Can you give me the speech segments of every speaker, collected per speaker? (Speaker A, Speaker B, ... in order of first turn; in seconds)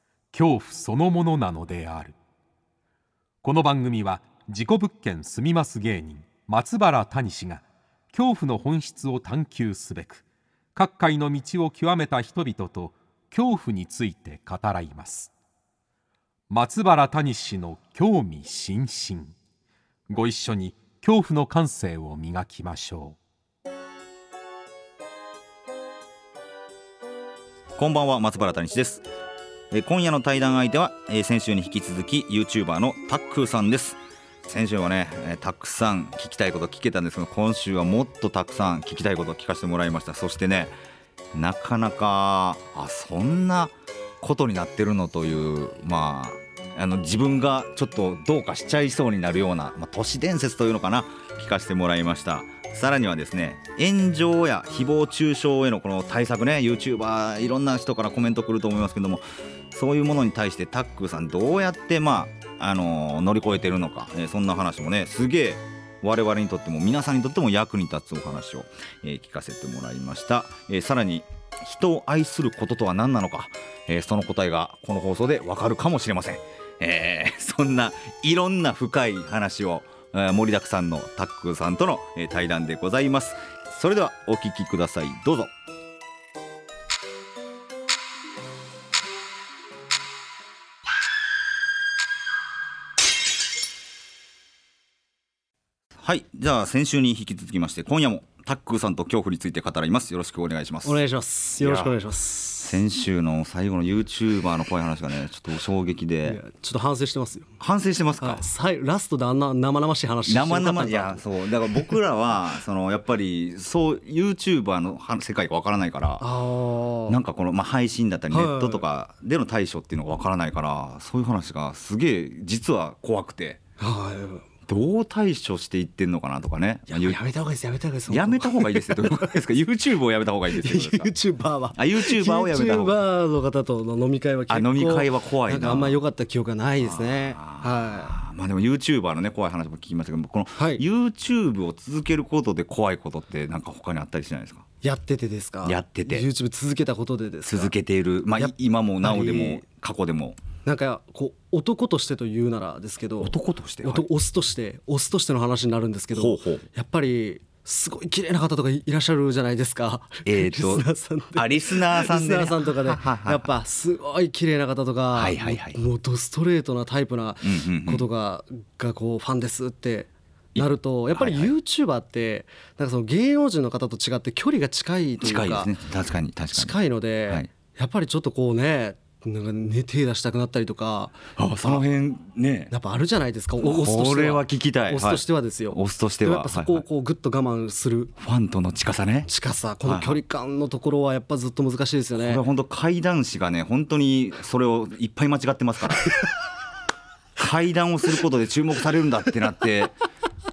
Speaker A: 0.3-2.1, 3.4-10.2, 10.7-15.3, 16.5-19.3, 20.1-23.2
Speaker B: 27.8-29.0, 29.7-40.7, 41.3-85.5, 96.0-101.0, 101.6-101.9, 102.6-106.4, 107.6-108.5, 110.3-116.2, 117.1-123.6, 124.7-127.2, 128.1-131.1, 131.7-133.0, 134.5-136.0, 136.8-144.7, 145.6-146.3, 147.4-150.4, 153.2-154.0, 156.1-156.6, 160.2-163.5, 165.1-165.8, 167.4-168.1, 170.5-171.5, 175.2-176.8, 181.3-182.7, 183.6-186.8, 188.2-189.3, 189.8-190.2, 192.2-196.2, 197.4-199.9
Speaker C: 100.8-102.8, 106.2-107.6, 108.2-111.9, 116.2-117.2, 118.3-118.8, 123.8-124.5, 126.9-129.3, 130.5-138.2, 140.6-140.8, 144.8-147.7, 148.4-149.6, 150.6-175.7, 176.5-181.8, 182.7-188.1, 189.2-192.4